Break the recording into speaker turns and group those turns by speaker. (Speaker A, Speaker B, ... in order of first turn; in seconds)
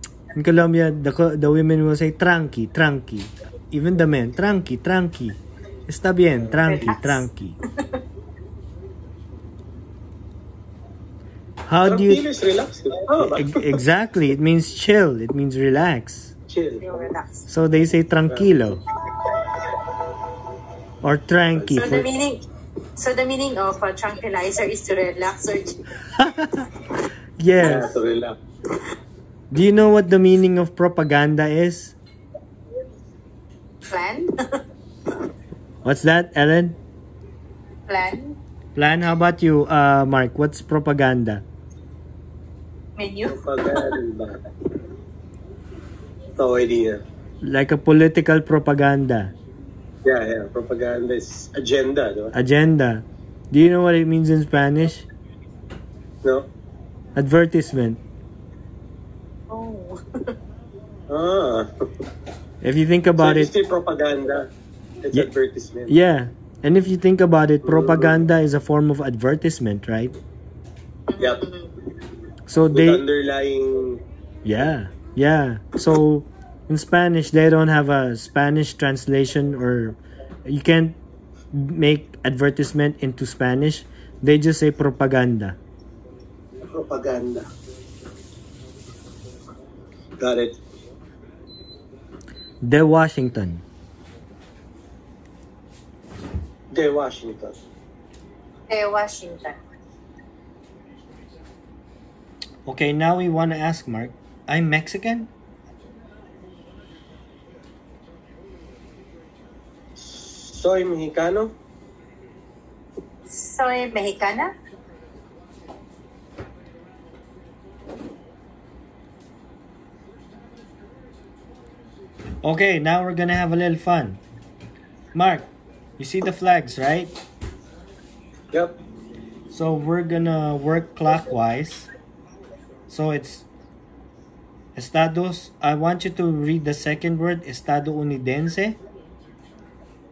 Speaker A: 0.3-7.6, 11.7-12.2, 13.2-16.3, 17.5-18.8, 21.0-22.0, 26.1-26.7, 27.4-28.0, 29.5-31.9, 35.8-36.8, 38.8-41.4, 47.4-49.3, 52.3-55.1, 57.1-58.0, 62.6-63.5, 65.9-70.2, 72.5-73.0, 74.4-81.0, 81.5-85.6, 92.6-93.6, 102.7-105.3, 122.4-124.2, 125.1-127.1, 129.5-131.9, 132.9-133.4, 134.8-138.8
Speaker B: 6.7-7.2, 16.8-17.4, 21.8-22.4, 23.0-25.8, 33.9-34.6, 37.9-38.4, 43.0-43.8, 59.5-60.3, 71.1-71.7, 98.7-99.6, 113.3-114.5
Speaker C: 11.8-13.8, 16.5-17.1, 18.3-18.5, 21.5-22.0, 27.6-28.4, 43.3-44.4, 46.4-47.0, 50.0-52.3, 56.2-56.5, 61.1-61.7, 63.2-64.5, 65.0-65.9, 67.6-68.2, 71.2-71.4, 72.7-74.0, 86.7-87.5, 90.2-90.6, 96.7-97.6, 110.0-111.5, 128.5-128.8